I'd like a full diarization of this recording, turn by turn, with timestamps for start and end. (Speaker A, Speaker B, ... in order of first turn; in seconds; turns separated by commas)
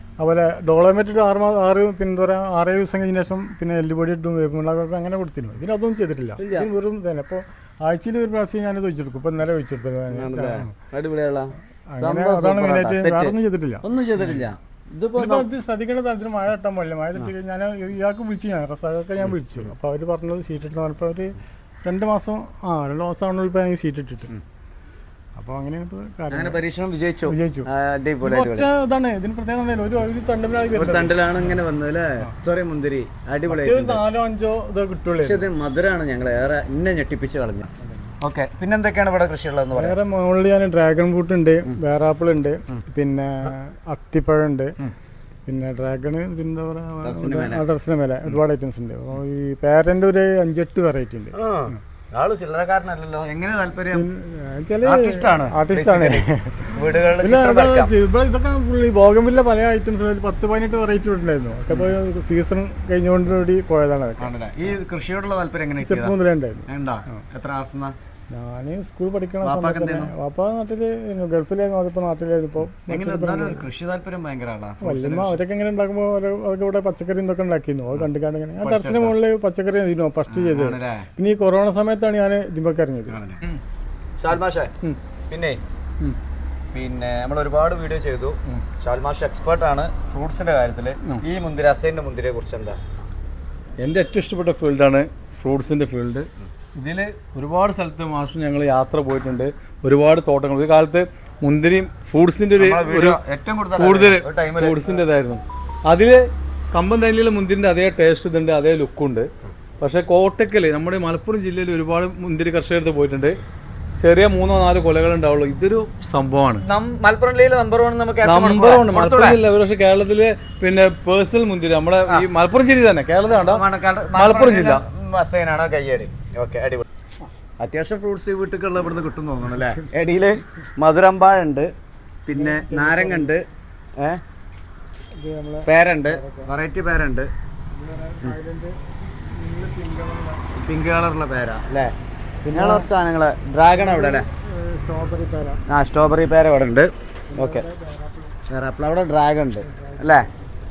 Speaker A: 0.2-10.7, Speaker B: 6.4-6.7, Speaker B: 10.1-15.5, Speaker A: 11.9-13.8, Speaker A: 15.2-24.3, Speaker A: 25.4-26.6, Speaker B: 26.3-28.7, Speaker A: 27.3-27.7, Speaker A: 28.2-31.6, Speaker B: 30.7-34.0, Speaker A: 33.5-35.5, Speaker B: 35.2-37.7, Speaker B: 38.2-40.0, Speaker A: 39.8-44.8, Speaker A: 45.5-51.8, Speaker B: 47.0-47.6, Speaker B: 51.4-54.1, Speaker A: 53.9-64.3, Speaker B: 54.8-57.9, Speaker B: 64.2-66.2, Speaker A: 65.8-67.2, Speaker B: 66.7-68.0, Speaker A: 68.3-73.7, Speaker B: 69.4-70.1, Speaker B: 72.9-75.4, Speaker A: 74.8-83.2, Speaker B: 78.6-79.2, Speaker B: 80.3-81.1, Speaker B: 83.1-83.4, Speaker B: 84.2-84.7, Speaker B: 85.3-85.6, Speaker B: 86.7-92.8, Speaker C: 93.8-96.3, Speaker B: 96.8-97.1, Speaker C: 97.0-103.2, Speaker B: 102.6-105.0, Speaker C: 103.8-109.3, Speaker C: 109.8-113.4, Speaker C: 114.0-116.6, Speaker B: 116.6-119.4, Speaker C: 118.2-123.6, Speaker B: 123.3-126.9, Speaker C: 124.2-124.8, Speaker B: 127.6-131.7, Speaker B: 132.3-133.4, Speaker A: 132.3-133.3, Speaker A: 135.2-136.5, Speaker B: 135.7-137.3, Speaker A: 137.7-140.4, Speaker B: 140.6-141.9, Speaker B: 142.5-144.3, Speaker A: 142.5-142.9, Speaker A: 143.7-145.6, Speaker B: 145.7-147.7, Speaker A: 147.3-148.3, Speaker B: 148.5-150.3, Speaker A: 149.7-150.3